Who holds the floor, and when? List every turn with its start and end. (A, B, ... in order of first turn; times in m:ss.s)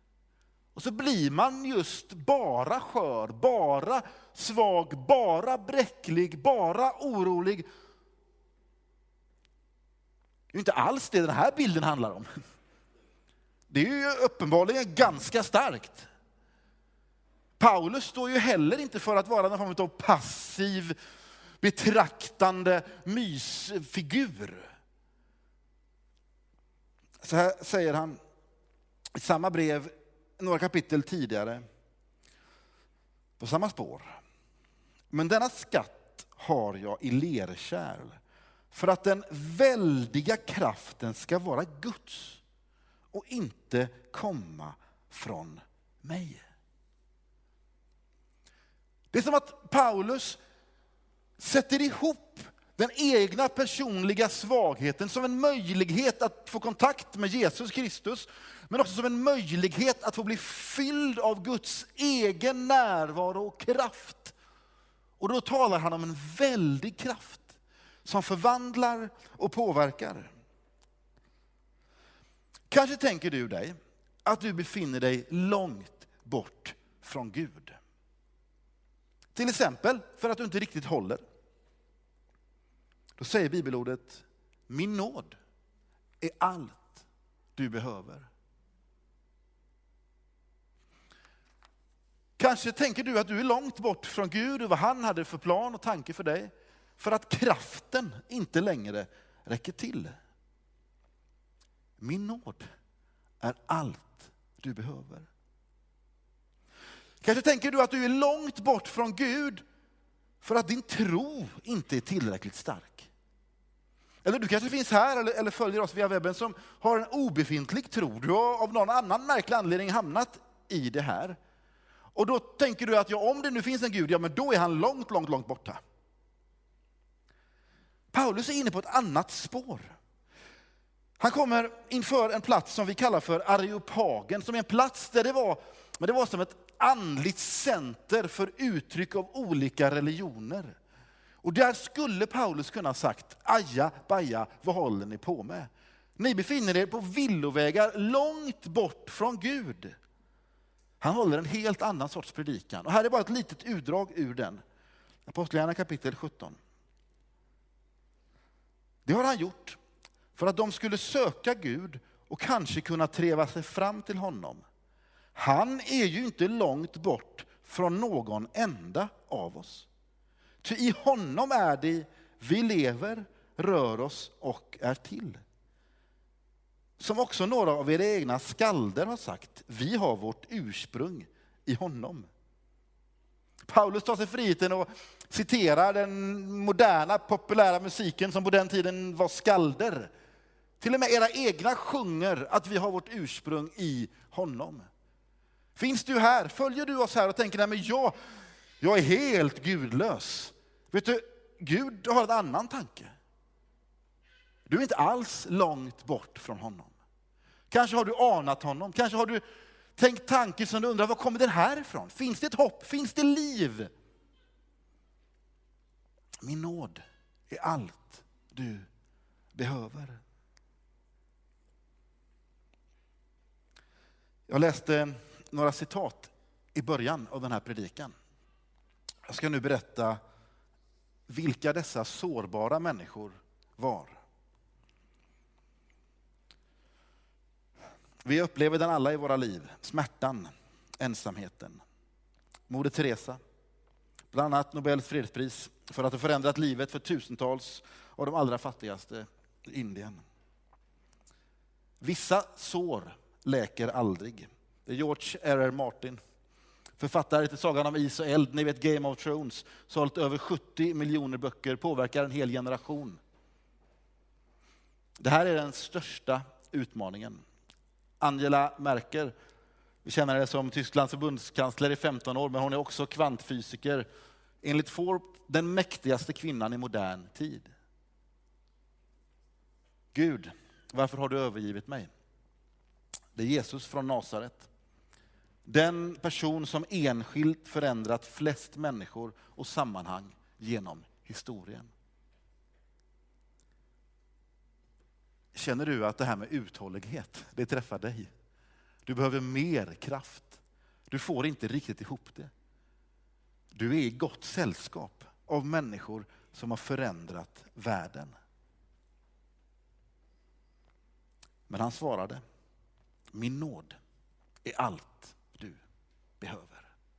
0:00.7-0:07.6 A
0:10.5-0:12.3 A
0:13.7-0:16.1 A
0:17.6-0:20.9 A
0:21.6-0:24.7 A
0:27.2-0:28.2 A
0:29.1-0:31.6 A
0:33.4-0:34.1 A
0:35.1-0:38.2 A
0:38.7-0:42.4 A
0:43.1-0:46.4 A
0:49.1-0:50.4 A
0:51.4-1:04.3 A
1:05.2-1:10.3 A
1:12.7-1:17.8 A
1:19.3-1:21.2 A
1:23.2-1:25.4 A
1:26.2-1:27.0 A
1:27.6-1:28.3 A
1:32.4-1:40.2 A
1:42.0-1:42.6 A
1:43.4-1:45.3 A
1:47.2-1:49.6 A
1:50.4-1:53.1 A
1:54.2-2:01.4 A
2:02.1-2:05.8 A
2:08.1-2:10.0 A
2:11.2-2:20.8 A
2:21.4-2:30.0 A
2:31.0-2:34.6 A
2:35.2-2:36.6 A
2:39.0-2:39.8 A
2:40.3-2:44.6 A
2:45.3-2:49.9 A
2:50.6-2:55.4 A
2:57.0-3:02.3 A
3:03.6-3:10.1 A
3:10.8-3:14.9 A
3:15.8-3:18.1 A
3:18.8-3:23.1 A
3:24.7-3:26.9 A
3:27.7-3:29.4 A
3:30.0-3:33.9 A
3:36.4-3:38.9 A
3:39.5-3:40.2 A
3:44.5-3:48.1 A
3:49.3-3:50.2 A
3:51.3-3:54.2 A
3:58.2-4:01.8 A
4:02.7-4:03.4 A
4:04.3-4:10.2 A
4:12.0-4:16.2 A
4:17.0-4:23.2 A
4:25.2-4:27.4 A
4:28.2-4:29.3 A
4:30.0-4:34.1 A
4:34.6-4:37.7 A
4:40.1-4:42.1 A
4:43.3-4:44.7 A
4:45.6-4:51.9 A
4:55.5-4:58.3 A
4:59.0-5:02.5 A
5:03.7-5:08.3 A
5:11.7-5:12.4 A
5:13.3-5:14.0 A
5:14.6-5:15.8 A
5:16.4-5:16.9 A